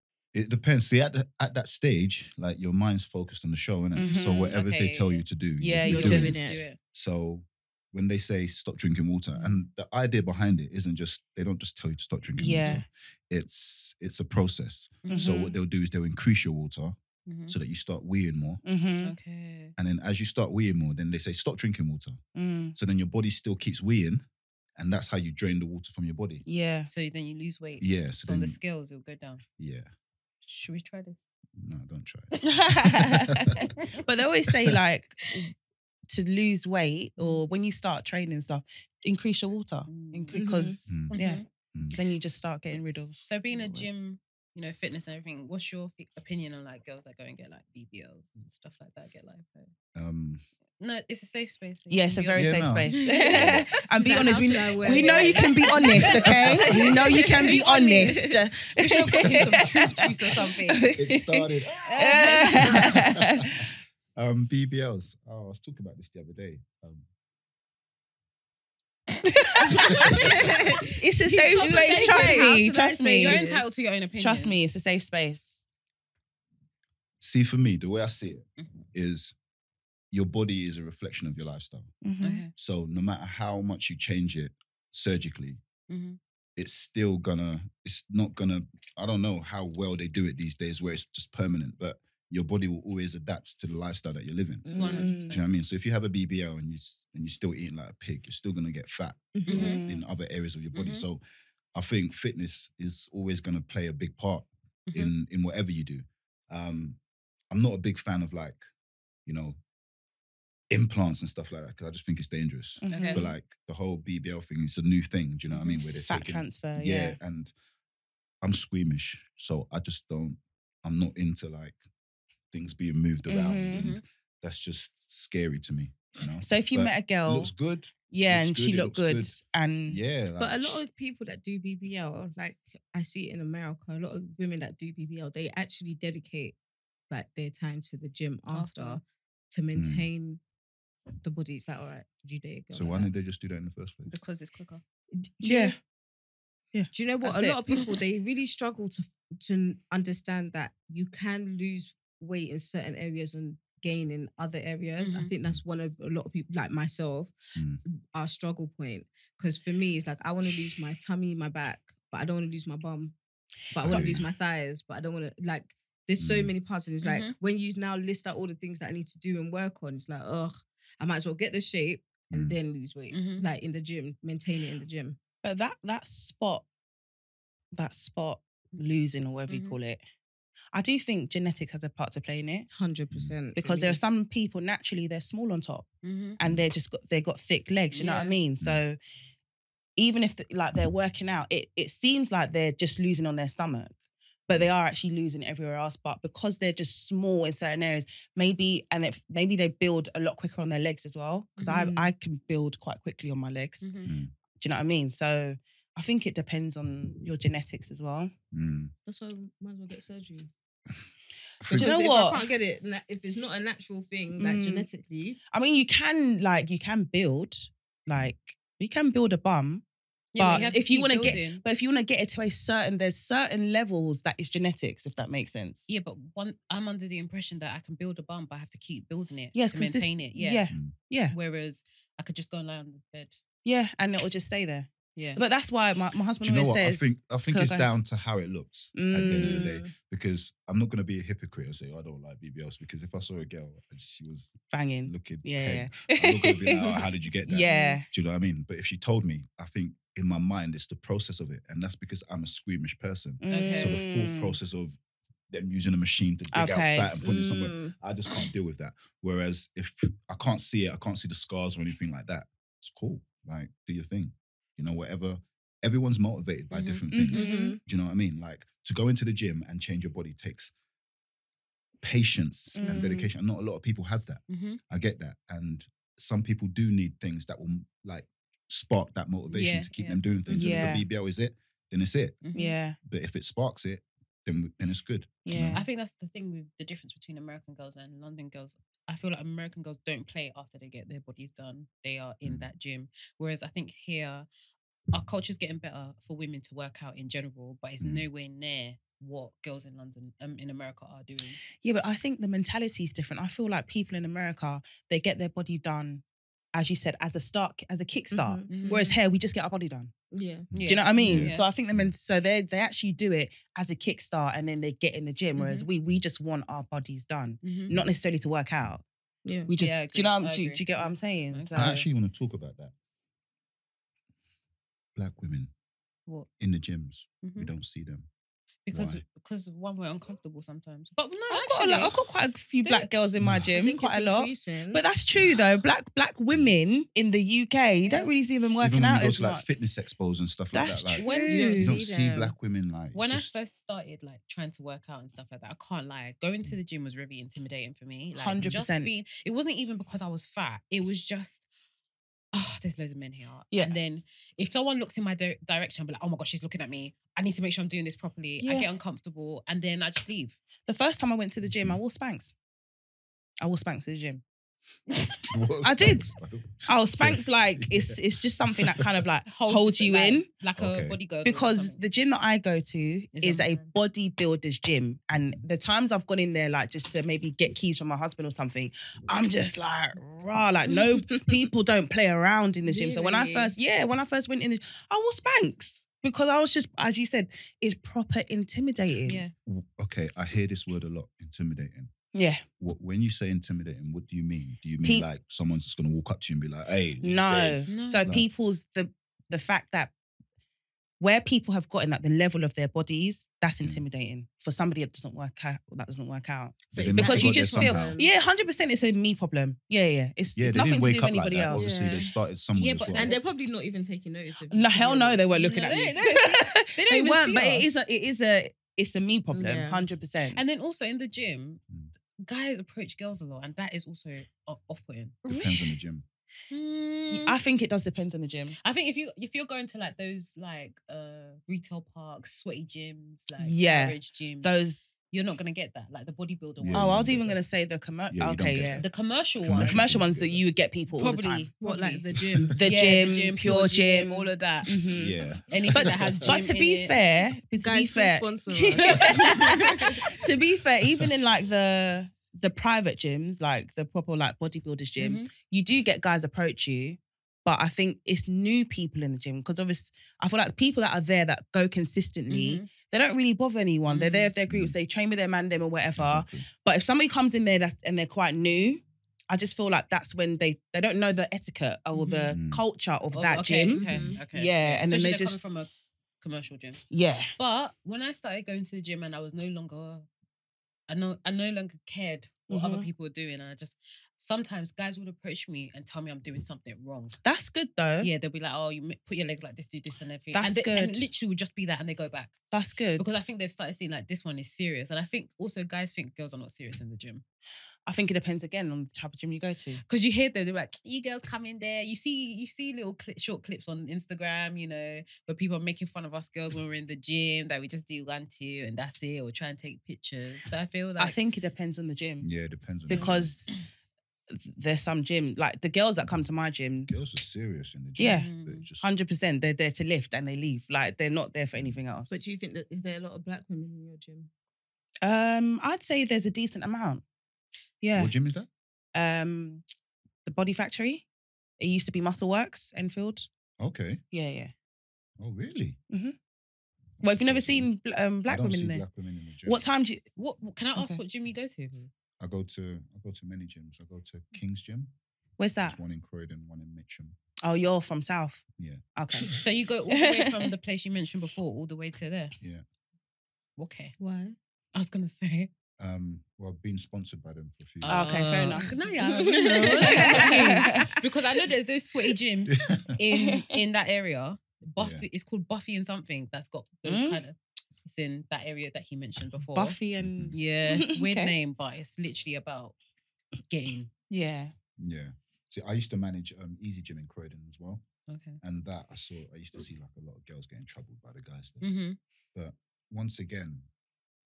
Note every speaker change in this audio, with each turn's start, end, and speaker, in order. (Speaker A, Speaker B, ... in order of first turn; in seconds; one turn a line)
Speaker A: 0.3-16.9
Speaker B: 3.9-4.5
Speaker C: 4.0-5.2
Speaker B: 5.6-6.6
Speaker D: 5.8-6.6
Speaker C: 5.8-6.8
Speaker C: 9.3-9.7
Speaker B: 12.4-12.8
Speaker C: 15.0-15.5
Speaker B: 15.1-15.5
Speaker C: 17.3-17.6
Speaker A: 17.5-18.6
Speaker B: 18.6-19.1
Speaker C: 19.0-19.7
Speaker A: 19.8-22.2
Speaker B: 22.3-22.7
Speaker A: 22.7-24.2
Speaker A: 24.8-26.4
Speaker B: 26.4-26.9
Speaker C: 26.9-29.4
Speaker A: 27.8-28.6
Speaker A: 29.6-29.9
Speaker C: 30.4-31.2
Speaker A: 31.6-33.7
Speaker B: 32.4-35.5
Speaker A: 34.5-34.8
Speaker B: 36.1-43.9
Speaker C: 37.2-37.4
Speaker C: 39.9-40.5
Speaker D: 40.3-40.8
Speaker A: 40.9-41.2
Speaker C: 41.1-41.5
Speaker A: 41.7-42.0
Speaker C: 43.0-49.7
Speaker A: 49.9-50.4
Speaker C: 50.8-52.6
Speaker B: 51.9-63.7
Speaker A: 52.3-53.6
Speaker D: 52.9-58.4
Speaker C: 54.8-60.9
Speaker A: 56.3-56.7
Speaker A: 59.4-60.0
Speaker A: 60.9-67.0
Speaker C: 61.9-62.9
Speaker B: 69.3-70.3
Speaker C: 69.7-70.1
Speaker D: 69.7-73.8
Speaker A: 69.9-70.3
Speaker B: 70.8-73.5
Speaker C: 71.5-74.6
Speaker B: 74.2-75.6
Speaker A: 77.2-79.3
Speaker C: 78.6-78.8
Speaker A: 80.1-81.9
Speaker B: 82.0-82.4
Speaker C: 82.2-82.5
Speaker A: 82.5-85.6
Speaker C: 85.9-86.2
Speaker A: 86.5-101.2
Speaker D: 94.6-95.4
Speaker C: 94.7-95.5
Speaker D: 99.3-99.8
Speaker C: 99.5-99.8
Speaker B: 99.5-100.0
Speaker C: 100.7-101.0
Speaker A: 101.7-107.0
Speaker C: 104.9-105.1
Speaker A: 107.5-108.6
Speaker A: 109.2-109.6
Speaker A: 110.7-117.5
Speaker B: 112.8-113.3
Speaker C: 112.9-113.2
Speaker B: 115.8-117.2
Speaker A: 118.4-121.8
Speaker A: 122.5-129.4
Speaker B: 123.2-123.9
Speaker C: 123.7-124.0
Speaker B: 126.4-127.5
Speaker B: 128.1-130.0
Speaker A: 129.9-130.8
Speaker D: 130.4-136.5
Speaker D: 137.1-140.4
Speaker C: 138.5-139.0
Speaker A: 139.7-140.1
Speaker D: 141.2-143.1
Speaker A: 142.7-144.1
Speaker C: 144.1-144.8
Speaker D: 145.2-145.8
Speaker B: 145.4-145.8
Speaker D: 146.9-163.2
Speaker C: 147.2-147.9
Speaker C: 155.0-155.3
Speaker A: 157.6-157.8
Speaker D: 163.7-175.2
Speaker A: 163.8-164.3
Speaker A: 166.2-166.5
Speaker C: 167.0-167.3
Speaker A: 172.3-172.6
Speaker C: 173.1-173.4
Speaker B: 175.4-176.6
Speaker B: 177.7-180.0
Speaker C: 179.5-179.8
Speaker B: 180.7-182.7
Speaker D: 182.7-184.0
Speaker B: 183.5-189.0
Speaker C: 186.0-186.3
Speaker C: 187.9-188.3
Speaker B: 190.0-193.9
Speaker B: 194.5-203.9
Speaker D: 201.6-202.1
Speaker C: 203.8-204.1
Speaker A: 204.0-204.3
Speaker B: 204.6-208.3
Speaker A: 208.5-208.9
Speaker D: 209.0-210.5
Speaker A: 211.6-211.9
Speaker D: 211.7-215.4
Speaker B: 211.7-212.5
Speaker B: 214.4-214.9
Speaker B: 215.5-219.8
Speaker C: 220.3-221.6
Speaker B: 220.4-225.9
Speaker C: 225.9-230.6
Speaker B: 229.5-231.3
Speaker C: 231.3-233.3
Speaker B: 233.6-237.9
Speaker C: 235.2-235.4
Speaker A: 236.4-255.0
Speaker B: 238.9-239.8
Speaker D: 239.3-239.9
Speaker B: 244.7-248.1
Speaker D: 247.7-248.0
Speaker B: 253.4-254.6
Speaker C: 253.5-254.0
Speaker A: 255.5-270.7
Speaker B: 256.5-257.1
Speaker D: 257.2-257.9
Speaker C: 266.7-267.0
Speaker B: 267.1-267.7
Speaker D: 267.3-267.8
Speaker A: 272.0-282.4
Speaker B: 272.7-273.3
Speaker C: 274.5-274.8
Speaker C: 279.5-280.8
Speaker B: 280.5-281.1
Speaker D: 280.6-280.9
Speaker C: 282.4-282.8
Speaker B: 282.5-283.0
Speaker A: 283.0-285.8
Speaker B: 285.4-285.9
Speaker C: 285.7-294.5
Speaker C: 295.1-301.6
Speaker A: 298.0-298.3
Speaker B: 301.8-306.2
Speaker B: 306.7-310.1
Speaker D: 308.3-309.1
Speaker C: 308.7-309.1
Speaker D: 310.3-310.7
Speaker A: 310.7-312.1
Speaker C: 310.7-311.6
Speaker B: 310.9-319.0
Speaker C: 315.6-315.9
Speaker C: 317.6-317.9
Speaker D: 319.4-319.7
Speaker B: 319.7-322.1
Speaker C: 319.8-321.9
Speaker A: 321.7-322.9
Speaker A: 325.1-325.7
Speaker A: 326.6-328.3
Speaker C: 327.4-327.7
Speaker C: 328.9-332.2
Speaker A: 328.9-329.2
Speaker B: 331.5-339.6
Speaker C: 332.8-333.1
Speaker A: 333.4-333.7
Speaker D: 333.7-335.0
Speaker C: 338.0-338.3
Speaker A: 338.8-341.2
Speaker B: 340.7-341.9
Speaker C: 341.2-341.8
Speaker D: 341.4-342.5
Speaker A: 341.8-343.5
Speaker C: 343.1-351.7
Speaker B: 348.4-349.1
Speaker C: 352.5-360.6
Speaker B: 353.7-354.0
Speaker B: 358.6-358.9
Speaker B: 360.9-362.5
Speaker B: 363.6-364.4
Speaker A: 365.5-368.2
Speaker B: 365.8-370.5
Speaker A: 368.7-369.1
Speaker C: 369.5-372.0
Speaker A: 370.8-371.2
Speaker B: 371.4-389.4
Speaker C: 373.3-373.9
Speaker D: 380.9-381.3
Speaker D: 382.8-383.7
Speaker C: 389.2-389.5
Speaker A: 389.6-392.1
Speaker B: 392.3-392.6
Speaker A: 392.8-398.5
Speaker B: 397.2-400.1
Speaker C: 397.9-398.3
Speaker B: 401.2-411.9
Speaker A: 406.9-408.2
Speaker D: 406.9-408.3
Speaker A: 410.6-413.4
Speaker D: 411.7-412.3
Speaker C: 412.7-413.4
Speaker D: 413.1-416.1
Speaker B: 414.7-420.6
Speaker C: 415.5-416.3
Speaker C: 416.9-417.9
Speaker D: 419.5-420.1
Speaker C: 420.5-421.8
Speaker C: 422.4-425.4
Speaker B: 425.4-425.9
Speaker A: 425.4-426.2
Speaker C: 426.7-427.5
Speaker B: 427.3-428.8
Speaker C: 428.8-434.8
Speaker B: 433.6-435.1
Speaker C: 435.3-437.4
Speaker A: 436.8-437.6
Speaker B: 436.9-439.0
Speaker A: 438.3-439.1
Speaker C: 439.0-440.1
Speaker A: 439.6-440.6
Speaker B: 439.8-441.7
Speaker C: 441.1-442.2
Speaker D: 441.8-444.5
Speaker B: 442.7-444.4
Speaker C: 442.8-444.9
Speaker B: 444.9-445.4
Speaker A: 445.1-446.5
Speaker C: 445.7-447.1
Speaker B: 445.9-475.6
Speaker D: 447.8-450.5
Speaker C: 449.0-449.5
Speaker C: 455.2-455.5
Speaker C: 462.5-462.9
Speaker C: 464.1-464.5
Speaker A: 464.7-464.9
Speaker A: 466.2-466.7
Speaker D: 472.1-472.5
Speaker A: 472.5-472.8
Speaker C: 473.3-475.9
Speaker D: 473.9-474.4
Speaker C: 476.4-477.0
Speaker B: 477.1-477.5
Speaker C: 477.6-480.3
Speaker C: 481.1-487.4
Speaker B: 482.7-483.1
Speaker B: 487.4-488.3
Speaker C: 488.2-492.5
Speaker B: 490.5-491.3
Speaker B: 492.7-493.4
Speaker C: 493.2-497.4
Speaker B: 498.1-500.0
Speaker C: 500.0-511.4
Speaker B: 511.2-512.5
Speaker A: 512.4-513.5
Speaker B: 513.1-513.7
Speaker B: 514.5-517.1
Speaker A: 517.1-519.1
Speaker B: 518.2-518.5
Speaker C: 518.2-518.8
Speaker B: 519.0-522.4
Speaker D: 522.3-524.5
Speaker B: 525.2-527.2
Speaker B: 528.0-528.3
Speaker A: 528.1-528.7
Speaker B: 529.1-529.8
Speaker B: 530.4-531.2
Speaker B: 531.8-533.5
Speaker A: 533.8-534.2
Speaker B: 534.3-534.7
Speaker A: 535.4-536.0
Speaker B: 537.2-539.0
Speaker A: 537.4-537.9
Speaker A: 538.4-539.8
Speaker B: 539.6-540.3
Speaker C: 540.4-542.1
Speaker A: 542.4-545.1
Speaker B: 545.6-546.0
Speaker A: 545.8-547.4
Speaker B: 547.6-548.6
Speaker A: 548.8-549.0
Speaker B: 549.1-550.7
Speaker C: 549.5-552.5
Speaker C: 553.8-554.1
Speaker D: 554.2-554.6
Speaker C: 554.9-555.7
Speaker A: 556.0-558.6
Speaker C: 558.0-570.0
Speaker B: 558.1-561.2
Speaker D: 559.2-561.1
Speaker A: 562.7-563.2
Speaker B: 563.3-563.7
Speaker A: 565.0-565.2
Speaker B: 567.0-567.4
Speaker B: 569.7-571.5
Speaker A: 570.2-570.6
Speaker C: 570.5-572.9
Speaker C: 573.7-574.1
Speaker B: 574.3-574.7
Speaker A: 575.0-578.0
Speaker C: 578.3-578.6
Speaker A: 578.6-581.9
Speaker C: 581.8-582.2
Speaker A: 582.5-583.9